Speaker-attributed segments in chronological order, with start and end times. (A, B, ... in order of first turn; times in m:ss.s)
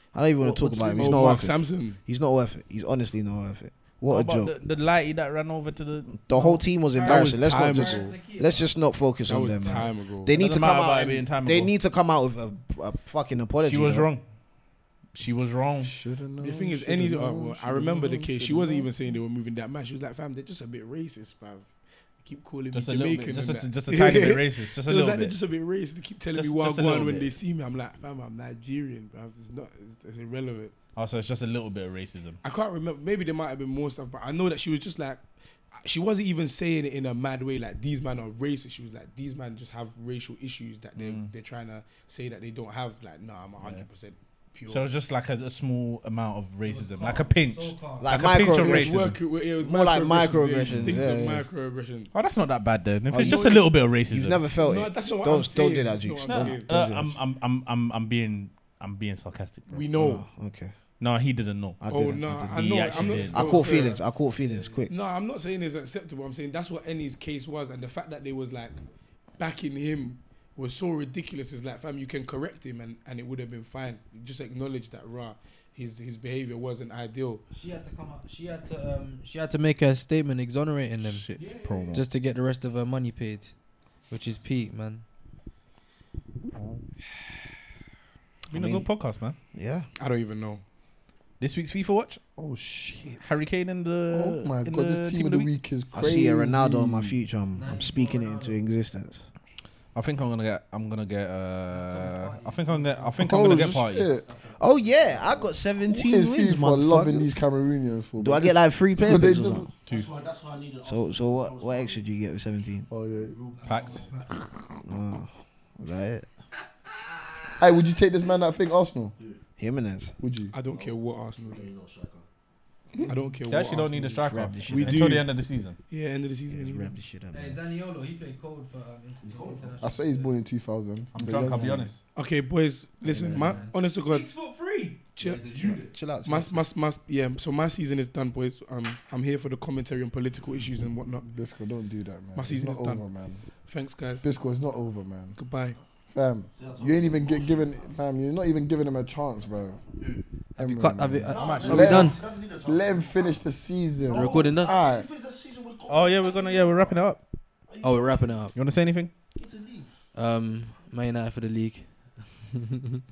0:00.1-0:04.5 A
0:00.4-0:01.3 B
0:00.9-0:02.0 C
0:04.1-0:06.2 D
0:06.1-0:14.1 A
0:06.3-0:08.1 C
0:06.9-0:08.8 E
0:09.2-0:10.3 C
0:10.3-0:11.7 D
0:13.6-0:14.2 D
0:15.1-0:15.9 D
0:15.8-0:18.9 B
0:16.4-0:21.7 C
0:22.2-0:30.7 C
0:22.7-0:25.4 D
0:26.3-0:27.3 D
0:31.0-0:32.4 D
0:32.4-0:35.2 C
0:35.8-0:44.9 C
0:41.0-0:41.3 D
0:44.7-0:49.2 D
0:46.6-0:48.1 E
0:48.0-0:51.4 A
0:48.5-0:52.1 C
0:50.6-0:51.0 D
0:52.1-0:54.4 D
0:53.1-0:57.2 A
0:53.2-0:53.5 C
0:54.6-0:56.7 C
0:56.2-0:59.9 D
0:59.7-1:00.2 C
0:59.9-1:00.7 A
1:01.0-1:01.8 D
1:01.8-1:04.9 A
1:01.9-1:04.0 C
1:02.5-1:03.9 D
1:03.1-1:03.9 E
1:04.4-1:04.8 E
1:04.9-1:08.8 C
1:09.4-1:17.4 C
1:17.5-1:21.4 E
1:21.0-1:22.1 D
1:21.4-1:21.8 F
1:21.9-1:23.5 E
1:24.1-1:25.0 E
1:26.5-1:26.8 B
1:28.5-1:29.4 D
1:28.5-1:28.9 A
1:29.5-1:29.9 A
1:30.0-1:30.6 C
1:31.4-1:32.2 D
1:32.4-1:33.4 B
1:33.2-1:35.5 D
1:34.1-1:37.2 B
1:35.9-1:39.3 A
1:37.5-1:38.6 E
1:39.9-1:44.1 D
1:41.7-1:43.2 E
1:43.2-1:44.2 B
1:44.0-1:45.7 F
1:44.6-1:47.4 A
1:45.8-1:49.7 B
1:48.2-1:49.7 A
1:49.9-1:52.1 F
1:50.8-1:52.9 A
1:52.9-1:53.4 B
1:53.1-1:54.1 F
1:53.5-1:54.2 E
1:53.6-1:54.1 D
1:54.8-1:56.3 A
1:57.6-1:59.1 B
1:59.6-2:00.1 A
2:00.2-2:00.5 B
2:00.5-2:01.7 C
2:00.6-2:02.2 F
2:03.0-2:04.1 C
2:03.4-2:05.8 D
2:04.2-2:05.3 A
2:04.6-2:05.3 C
2:05.9-2:06.9 C
2:06.5-2:07.6 A
2:07.3-2:10.4 E
2:09.2-2:09.8 F
2:09.8-2:11.9 B
2:11.1-2:12.0 D
2:11.3-2:11.8 E
2:12.1-2:14.3 C
2:13.0-2:13.6 B
2:13.3-2:15.1 E
2:15.2-2:15.4 C
2:15.2-2:16.0 F
2:15.9-2:16.6 A
2:16.2-2:21.2 C
2:21.2-2:23.4 B
2:22.3-2:23.0 C
2:23.7-2:24.3 C
2:24.2-2:25.4 B
2:25.4-2:25.8 C
2:26.1-2:29.8 B
2:26.5-2:28.0 F
2:29.4-2:30.2 F
2:30.6-2:35.0 B
2:30.6-2:32.2 E
2:31.2-2:33.4 F
2:31.4-2:32.1 D
2:34.0-2:37.0 F
2:34.1-2:34.7 E
2:35.9-2:37.2 D
2:37.7-2:38.5 F
2:37.8-2:38.5 E
2:38.5-2:39.1 D
2:39.3-2:40.0 F
2:40.1-2:41.9 E